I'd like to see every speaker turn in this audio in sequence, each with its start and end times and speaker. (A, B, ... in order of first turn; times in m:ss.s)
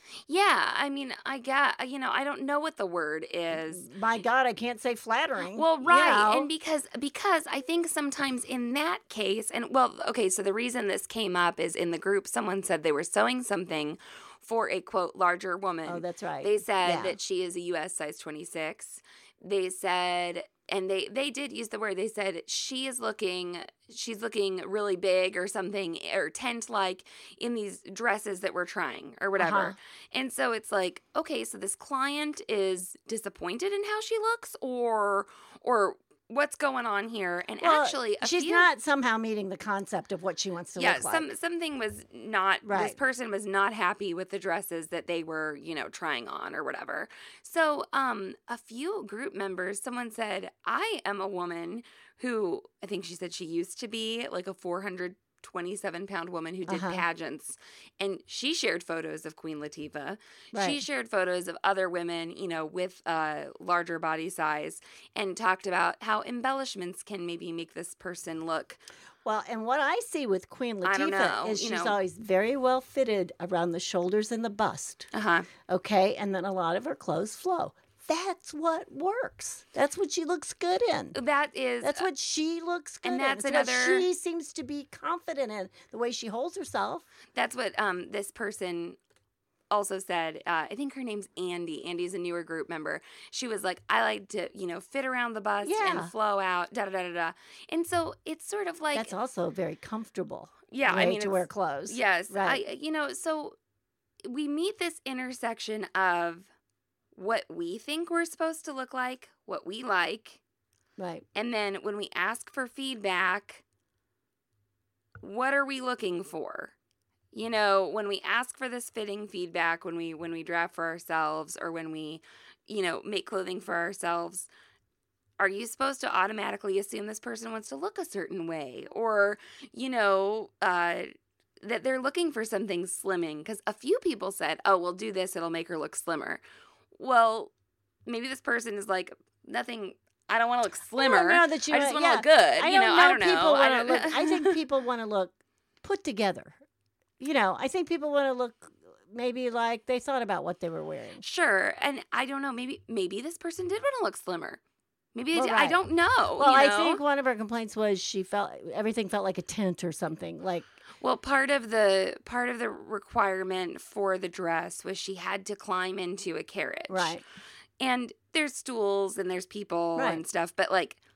0:00.3-0:03.8 A
0:03.5-0:06.5 B
0:05.5-0:38.7 A
0:15.8-0:17.2 B
0:29.4-0:29.8 B
0:37.6-0:41.3 B
0:40.8-1:08.8 A
0:42.6-0:43.0 B
0:56.7-0:57.0 B
1:00.5-1:00.8 B
1:09.2-1:15.1 B
1:10.8-1:12.0 A
1:15.1-1:15.5 A
1:15.7-1:21.2 B
1:21.1-1:22.1 A
1:21.8-1:27.0 B
1:23.0-1:24.1 A
1:27.3-1:29.0 A
1:29.7-1:39.1 A
1:35.6-1:36.1 B
1:38.9-1:42.6 B
1:40.7-1:43.6 A
1:44.2-1:46.5 A
1:47.1-1:50.4 A
1:51.0-1:51.2 B
1:51.3-1:53.6 A
1:55.2-1:56.7 A
1:57.3-2:04.5 A
2:05.4-2:16.4 A
2:16.9-2:17.5 A
2:18.0-2:24.6 A
2:21.0-2:26.6 B
2:27.2-2:31.2 B
2:31.2-2:34.6 A
2:35.1-2:37.0 A
2:35.3-2:35.8 B
2:36.4-2:40.6 B
2:41.0-2:47.2 A
2:46.9-2:47.2 B
2:47.8-2:51.0 A
2:50.0-2:50.2 B